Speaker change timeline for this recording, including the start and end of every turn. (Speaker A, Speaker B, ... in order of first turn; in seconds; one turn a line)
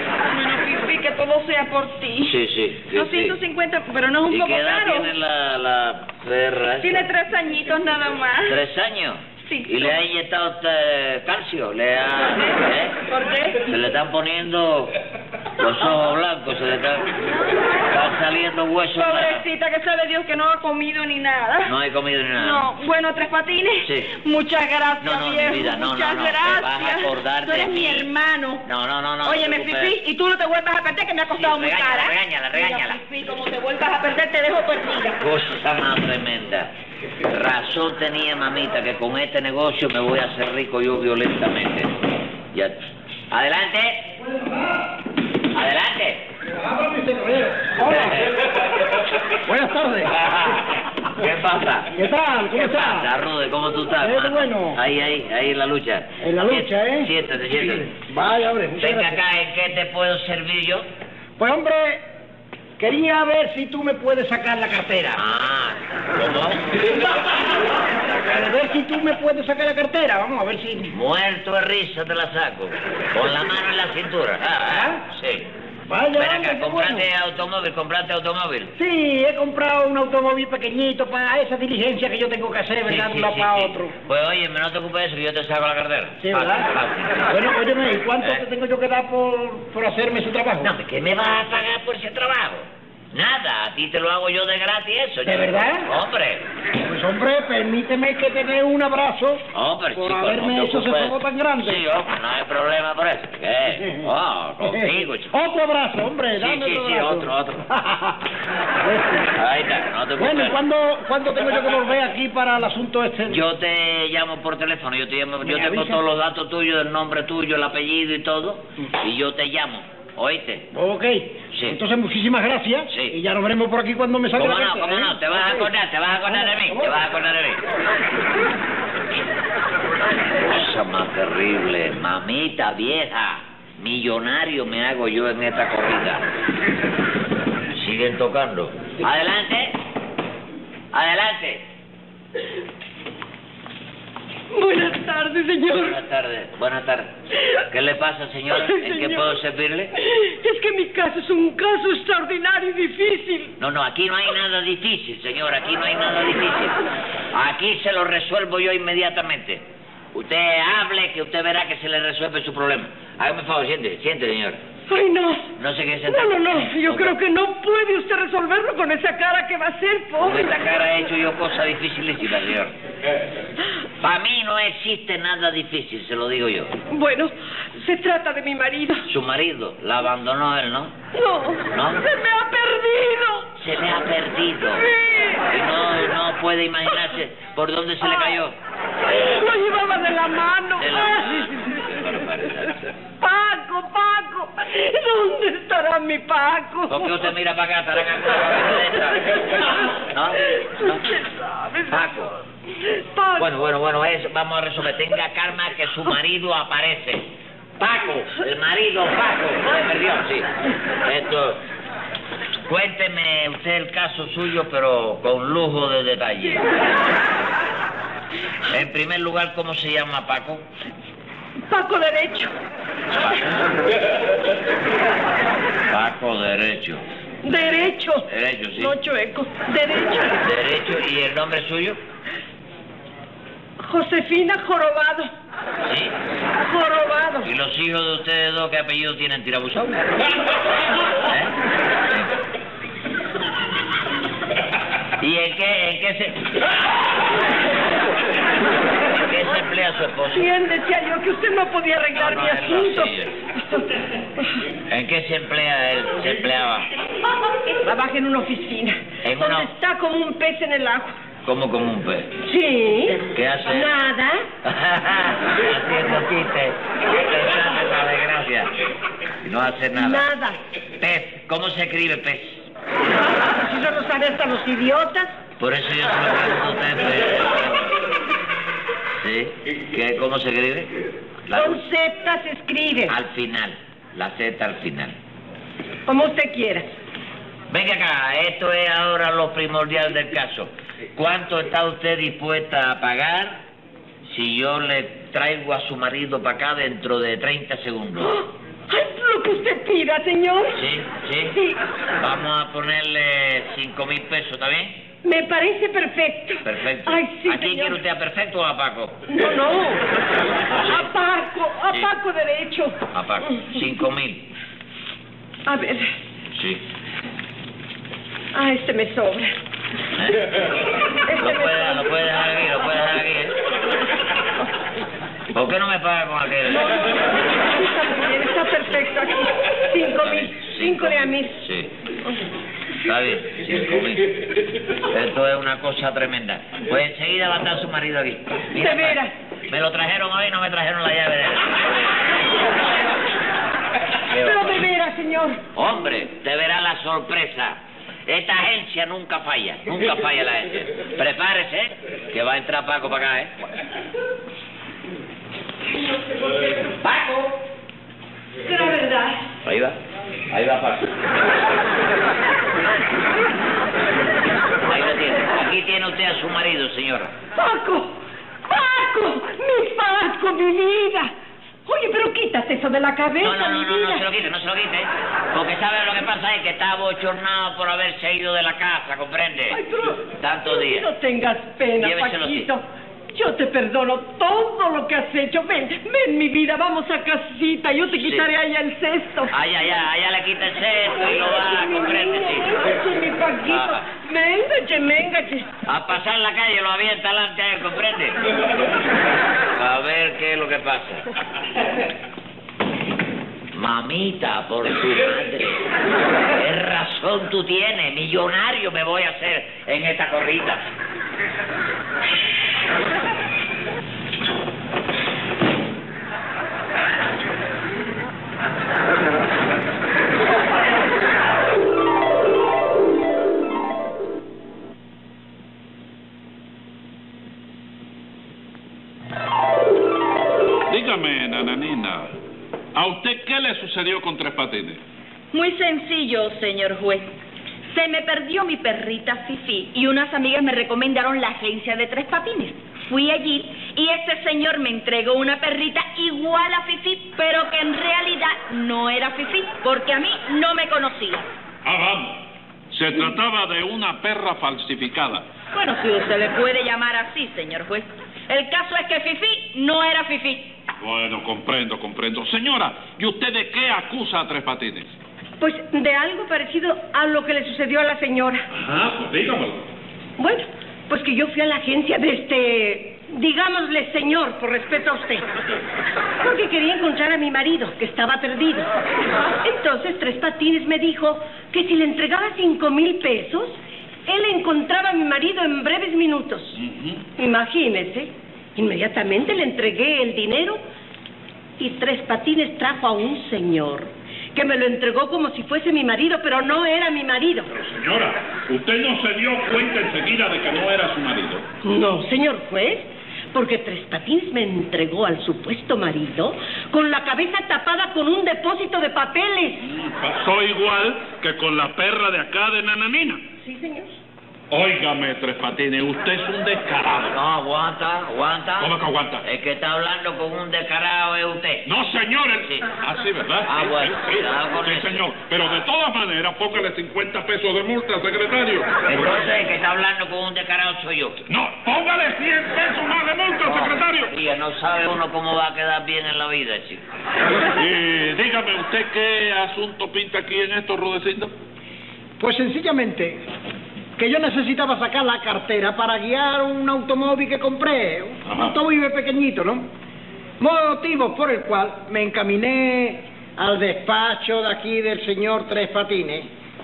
Speaker A: 0.3-2.4
Speaker B: 2.2-3.4
Speaker A: 2.9-5.1
Speaker B: 4.3-7.1
Speaker A: 6.8-8.6
Speaker B: 8.4-13.0
Speaker A: 9.4-9.9
Speaker A: 12.5-13.7
Speaker B: 13.7-14.9
Speaker B: 15.6-17.2
Speaker B: 17.9-19.4
Speaker A: 19.0-21.7
Speaker B: 21.6-22.7
Speaker A: 22.4-28.6
Speaker B: 23.8-24.1
Speaker B: 25.0-28.1
Speaker B: 28.6-30.0
Speaker A: 29.2-35.2
Speaker B: 31.3-33.0
Speaker B: 35.2-36.7
Speaker B: 37.3-42.0
Speaker B: 42.5-44.1
Speaker C: 44.3-44.6
Speaker B: 45.5-46.3
Speaker C: 46.5-48.4
Speaker B: 47.9-48.4
Speaker C: 49.4-50.2
Speaker B: 50.1-51.9
Speaker C: 51.9-53.1
Speaker B: 52.5-57.9
Speaker C: 54.0-54.8
Speaker C: 56.2-57.1
Speaker C: 57.7-59.2
Speaker B: 58.8-60.9
Speaker C: 61.4-62.0
Speaker C: 62.8-65.2
Speaker B: 65.2-66.8
Speaker C: 68.2-70.9
Speaker B: 70.9-75.5
Speaker C: 74.7-75.0
Speaker C: 75.9-77.1
Speaker B: 76.2-78.7
Speaker C: 78.8-83.9
Speaker B: 82.8-87.3
Speaker C: 86.2-86.7
Speaker C: 87.3-90.7
Speaker B: 90.6-96.4
Speaker C: 95.2-95.9
Speaker C: 96.8-101.8
Speaker B: 99.5-105.3
Speaker C: 103.8-104.1
Speaker C: 104.6-108.2
Speaker B: 106.3-107.7
Speaker C: 108.8-109.3
Speaker B: 109.3-110.6
Speaker C: 110.2-113.4
Speaker B: 113.3-120.7
Speaker C: 115.4-116.0
Speaker C: 120.7-125.7
Speaker B: 121.5-121.8
Speaker B: 122.9-123.2
Speaker B: 124.3-127.6
Speaker C: 126.3-127.0
Speaker B: 130.4-136.2
Speaker B: 137.7-139.8
Speaker B: 140.9-141.6
Speaker D: 144.5-146.0
Speaker B: 145.7-149.9
Speaker D: 148.5-149.4
Speaker D: 150.0-153.5
Speaker B: 153.6-156.8
Speaker B: 157.3-164.6
Speaker D: 164.9-165.5
Speaker B: 165.6-167.2
Speaker D: 166.1-170.5
Speaker B: 170.2-172.7
Speaker B: 174.0-176.7
Speaker D: 176.9-179.1
Speaker B: 179.1-180.9
Speaker D: 181.1-183.5
Speaker B: 181.7-182.0
Speaker B: 183.6-184.9
Speaker D: 184.8-185.5
Speaker B: 185.5-188.6
Speaker D: 189.1-191.7
Speaker B: 190.8-192.8
Speaker D: 193.2-197.3
Speaker B: 196.9-201.1
Speaker D: 200.8-201.8
Speaker B: 201.9-202.3
Speaker D: 202.9-203.5
Speaker B: 203.4-207.3
Speaker B: 207.8-210.5
Speaker B: 211.0-211.6
Speaker B: 212.7-216.7
Speaker B: 218.7-220.7
Speaker D: 221.7-222.5
Speaker B: 223.1-223.7
Speaker B: 225.9-227.0
Speaker D: 227.4-228.2
Speaker B: 228.2-228.9
Speaker D: 228.8-230.4
Speaker B: 230.4-232.0
Speaker D: 233.8-235.3
Speaker B: 235.8-236.2
Speaker D: 236.6-237.5
Speaker B: 237.4-240.3
Speaker B: 241.2-241.6
Speaker B: 245.2-246.6
Speaker B: 249.1-250.5
Speaker D: 250.3-254.6
Speaker B: 252.1-253.4
Speaker B: 254.9-256.9
Speaker D: 257.8-261.2
Speaker B: 259.2-259.7
Speaker B: 261.4-262.3
Speaker D: 262.4-264.5
Speaker B: 263.3-263.9
Speaker B: 264.6-268.7
Speaker B: 269.4-270.3
Speaker D: 269.9-270.6
Speaker B: 271.0-272.7
Speaker D: 273.5-275.3
Speaker B: 275.6-277.9
Speaker B: 279.1-280.9
Speaker B: 281.4-281.8
Speaker D: 281.5-283.1
Speaker B: 283.1-285.1
Speaker D: 286.1-286.9
Speaker B: 287.7-293.6
Speaker B: 294.2-298.4
Speaker D: 298.2-300.8
Speaker B: 300.7-301.6
Speaker D: 301.5-301.8
Speaker B: 302.2-305.0
Speaker D: 305.2-308.0
Speaker B: 306.6-309.2
Speaker D: 309.3-310.0
Speaker B: 310.6-311.1
Speaker D: 310.8-313.0
Speaker B: 313.1-314.5
Speaker D: 315.6-316.1
Speaker B: 316.5-316.8
Speaker D: 318.5-319.6
Speaker B: 320.1-323.6
Speaker D: 321.3-322.1
Speaker B: 325.5-327.1
Speaker D: 326.7-331.6
Speaker B: 330.2-331.9
Speaker B: 333.0-334.3
Speaker B: 335.1-342.1
Speaker D: 338.7-339.3
Speaker B: 344.3-344.9
Speaker D: 344.3-345.6
Speaker B: 345.7-353.5
Speaker B: 357.0-357.4
Speaker D: 358.6-359.4
Speaker B: 359.6-360.0
Speaker B: 360.5-361.1
Speaker B: 364.8-367.3
Speaker D: 367.5-371.3
Speaker D: 371.9-374.2
Speaker B: 373.4-379.8
Speaker D: 379.7-389.5
Speaker B: 380.3-381.1
Speaker B: 382.0-382.7
Speaker B: 388.1-388.5
Speaker B: 389.5-392.8
Speaker D: 391.2-395.7
Speaker B: 393.6-394.0
Speaker B: 395.9-398.4
Speaker B: 399.7-401.3
Speaker B: 403.7-405.9
Speaker B: 406.5-410.9
Speaker E: 430.9-432.3
Speaker E: 432.9-435.0
Speaker A: 435.5-437.3
Speaker A: 437.9-451.5
Speaker E: 451.8-455.4
Speaker A: 455.7-460.7
Speaker E: 461.0-465.1
Speaker D: 465.6-468.7
Speaker E: 468.7-469.9
Speaker D: 470.4-475.6
Speaker D: 476.4-478.9
Speaker D: 479.6-486.8
Speaker E: 486.8-487.2
Speaker D: 487.4-490.8
Speaker D: 491.8-497.7
Speaker E: 497.7-501.6
Speaker D: 501.8-509.9
Speaker E: 509.8-513.4
Speaker D: 513.6-514.2
Speaker E: 514.7-517.4
Speaker B: 517.3-521.9
Speaker E: 518.8-519.4
Speaker E: 521.8-529.4
Speaker B: 523.6-525.3
Speaker B: 529.0-531.4
Speaker E: 531.5-534.3
Speaker B: 533.6-537.0
Speaker E: 537.7-541.5
Speaker C: 542.4-543.4
Speaker C: 544.2-549.9
Speaker E: 548.4-548.7
Speaker C: 550.6-556.5